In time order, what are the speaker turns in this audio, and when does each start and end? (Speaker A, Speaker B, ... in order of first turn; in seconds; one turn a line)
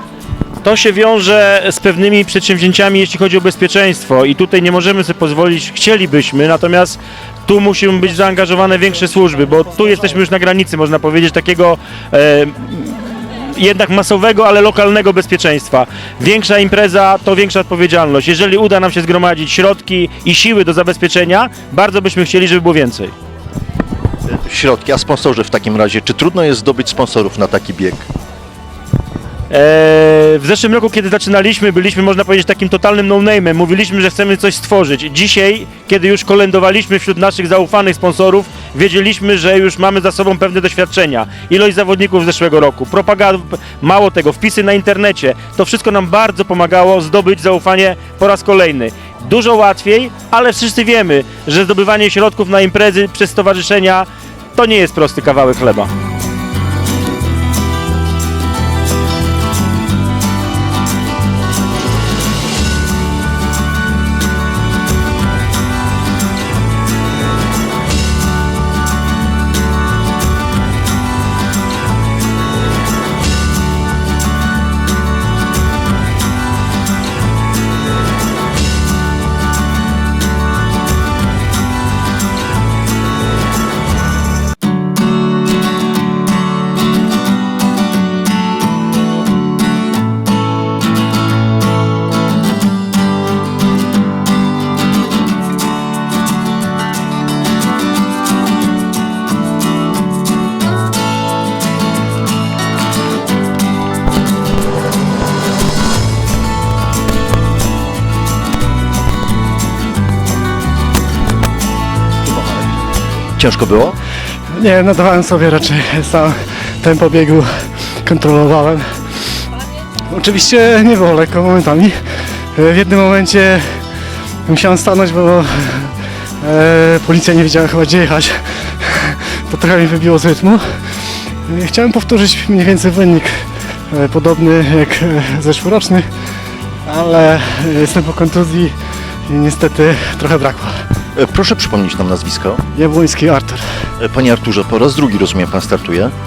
Speaker A: 0.6-23.1
Speaker B: 24.3-28.0
Speaker A: 29.5-55.9
Speaker B: 113.4-114.0
Speaker C: 114.5-117.5
Speaker C: 118.0-118.8
Speaker C: 120.1-122.0
Speaker C: 122.5-123.6
Speaker C: 124.5-130.8
Speaker C: 131.5-136.1
Speaker C: 136.9-138.7
Speaker C: 139.3-140.8
Speaker B: 141.2-142.6
Speaker C: 142.7-143.6
Speaker B: 144.0-146.1